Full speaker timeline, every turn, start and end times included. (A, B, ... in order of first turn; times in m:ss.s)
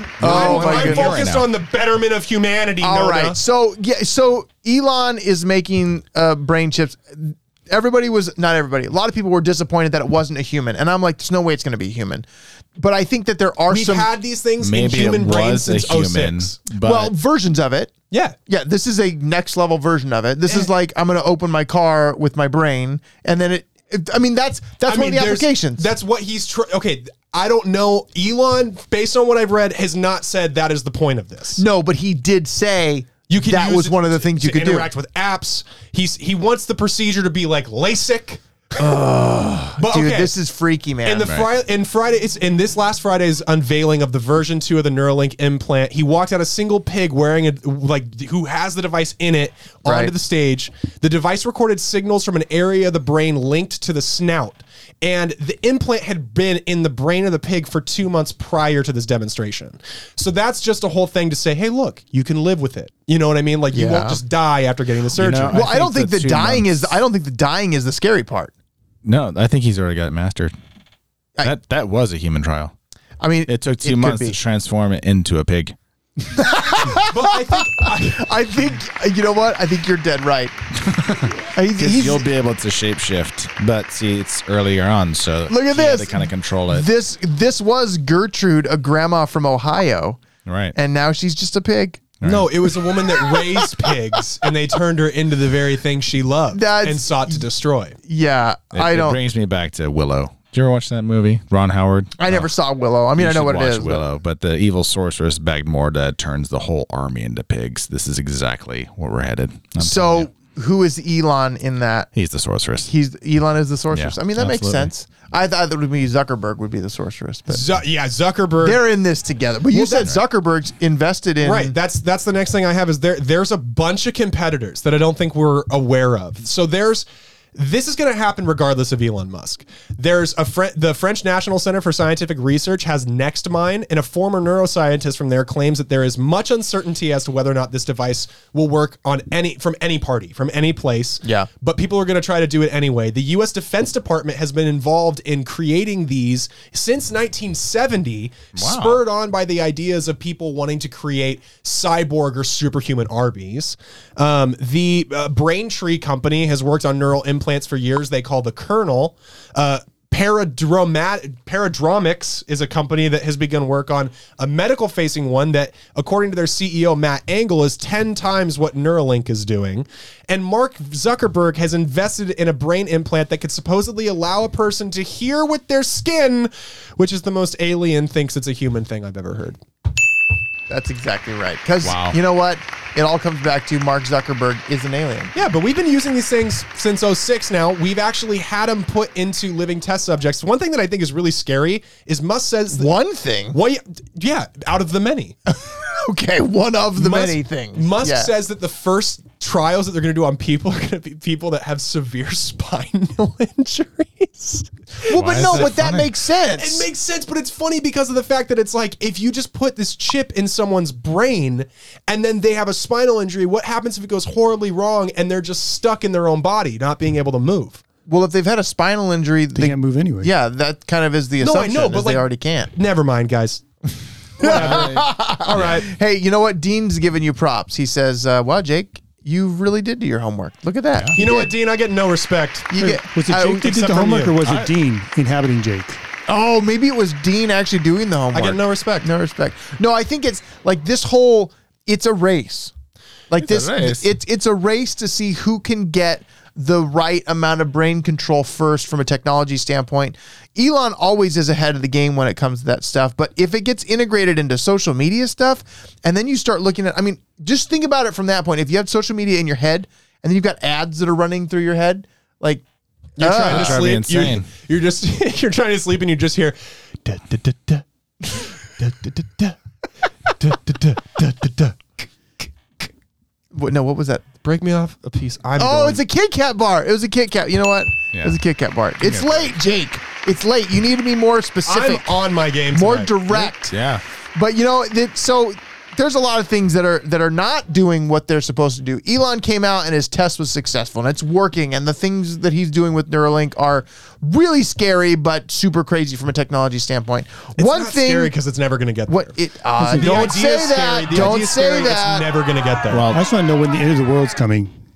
0:00.2-0:01.2 A
0:00.2-0:01.5 B
0:00.2-0:03.4 C
0:02.8-0:12.3 A
0:12.8-0:14.1 A
0:13.7-0:16.6 C
0:14.6-0:17.1 B
0:16.8-0:17.9 A
0:18.1-0:18.4 C
0:18.5-0:25.9 A
0:24.8-0:31.6 C
0:31.6-0:34.9 A
0:33.3-0:38.4 C
0:38.8-0:41.4 A
0:39.8-0:40.3 C
0:41.0-1:05.6 C
0:49.8-0:50.1 A
1:03.7-1:04.2 A
1:05.2-1:07.0 B
1:05.5-1:08.5 A
1:09.0-1:10.5 B
1:11.4-1:12.7 B
1:13.2-1:14.4 A
1:13.5-1:15.7 B
1:16.2-1:20.5 A
1:17.0-1:18.3 C
1:20.8-1:26.9 B
1:21.5-1:22.2 A
1:25.5-1:30.2 A
1:30.4-1:30.7 B
1:30.7-1:32.1 A
1:32.2-1:32.6 B
1:32.2-1:38.0 C
1:33.0-1:33.9 A
1:36.5-1:37.5 A
1:38.0-1:39.2 A
1:38.7-1:42.4 B
1:42.2-1:44.0 A
1:43.2-1:50.3 B
1:49.8-1:52.1 A
1:52.1-1:52.9 B
1:52.8-1:57.6 A
1:53.9-1:54.9 B
1:57.5-1:58.8 C
1:58.6-2:01.8 A
2:00.0-2:00.2 B
2:01.4-2:59.6 C
2:21.2-2:21.5 A
2:28.5-2:29.0 B
3:00.7-3:05.3 A
3:01.8-3:02.2 B
3:05.3-3:12.9 C
3:12.7-3:13.6 A
3:13.5-3:15.4 C
3:15.5-3:18.3 A
3:17.0-3:25.7 C
3:25.1-3:26.9 A
3:25.1-3:26.1 B
3:26.6-3:37.8 C
3:38.1-3:42.7 A
3:39.6-3:40.3 D
3:41.4-3:43.6 C
3:44.4-3:51.5 A
3:44.4-3:45.9 C
3:44.4-3:45.8 B
3:51.2-3:52.7 C
3:52.7-3:53.7 A
3:52.8-3:56.0 D
3:53.6-3:54.5 C
3:56.3-4:02.7 A
3:58.3-3:59.1 C
4:03.3-4:22.6 A
4:03.4-4:04.1 B
4:23.2-4:27.8 C
4:23.2-4:23.8 A
4:23.5-4:24.5 B
4:28.3-4:29.2 A
4:28.8-4:29.5 C
4:30.4-4:31.8 C
4:33.5-4:34.3 A
4:34.4-4:36.0 C
4:35.6-4:43.7 A
4:38.1-4:38.4 B
4:39.0-4:39.6 B
4:41.6-4:43.5 C
4:43.7-4:44.0 B
4:44.3-4:58.3 A
4:57.6-4:59.4 C
4:59.1-5:02.3 A
4:59.8-5:00.3 D
5:00.0-5:03.1 C
5:02.9-5:03.2 B
5:03.1-5:04.7 D